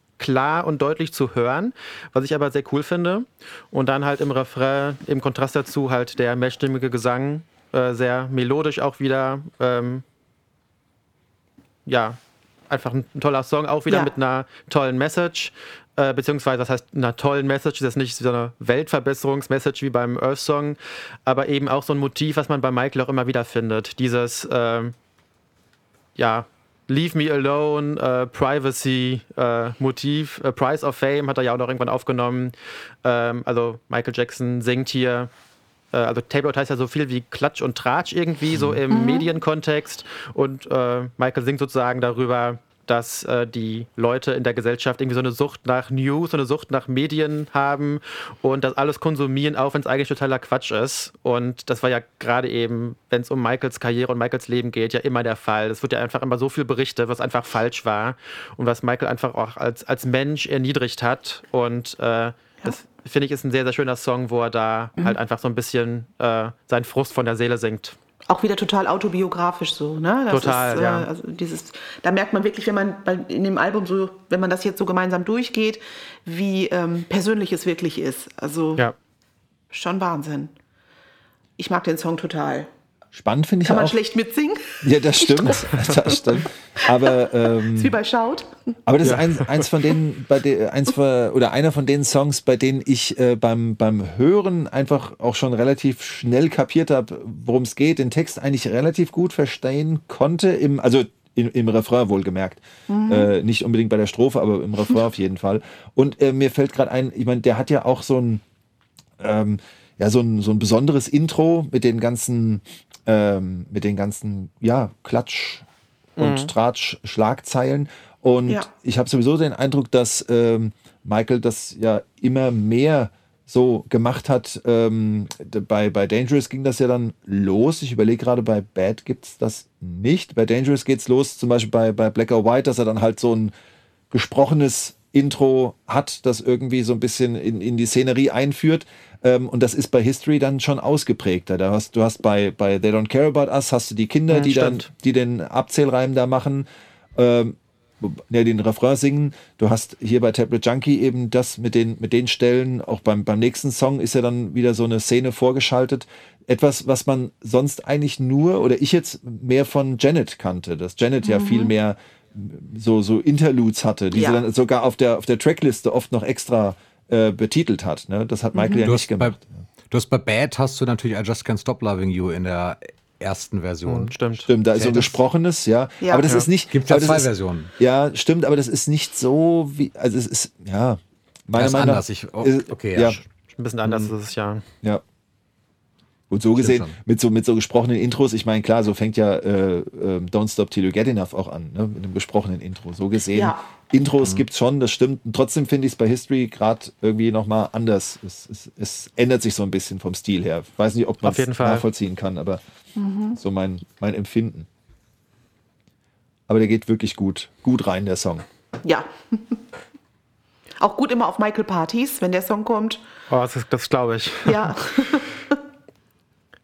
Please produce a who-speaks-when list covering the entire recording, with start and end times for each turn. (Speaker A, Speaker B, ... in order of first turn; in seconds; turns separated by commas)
Speaker A: 0.2-10.0, Speaker A: 11.8-12.2, Speaker A: 12.7-24.9, Speaker A: 26.1-35.3, Speaker A: 35.9-68.0, Speaker B: 38.9-39.3, Speaker B: 68.3-78.9, Speaker A: 70.3-71.1, Speaker B: 79.7-80.5, Speaker B: 81.6-82.7, Speaker C: 83.1-84.0, Speaker B: 83.6-86.3, Speaker C: 84.8-87.9, Speaker B: 87.7-88.5, Speaker C: 88.8-108.4, Speaker A: 89.0-89.6, Speaker B: 102.9-103.3, Speaker C: 109.2-115.6, Speaker A: 116.2-116.5, Speaker C: 116.2-133.5, Speaker C: 134.1-169.4, Speaker A: 144.3-144.9, Speaker B: 161.2-161.7, Speaker B: 164.1-164.4, Speaker B: 168.5-168.9, Speaker D: 168.8-169.4, Speaker D: 169.9-174.1, Speaker A: 173.8-174.5, Speaker C: 174.4-183.2, Speaker D: 174.7-175.1, Speaker B: 176.0-176.5, Speaker D: 176.7-177.7, Speaker D: 181.5-183.2, Speaker A: 183.0-184.6, Speaker D: 183.8-184.1, Speaker C: 186.3-202.6, Speaker D: 186.6-186.9, Speaker B: 193.3-193.6, Speaker A: 201.2-201.8, Speaker B: 202.9-203.4, Speaker C: 203.3-204.7, Speaker C: 206.5-208.4, Speaker B: 208.8-209.6, Speaker B: 210.8-213.0, Speaker A: 213.3-214.8, Speaker B: 214.4-215.6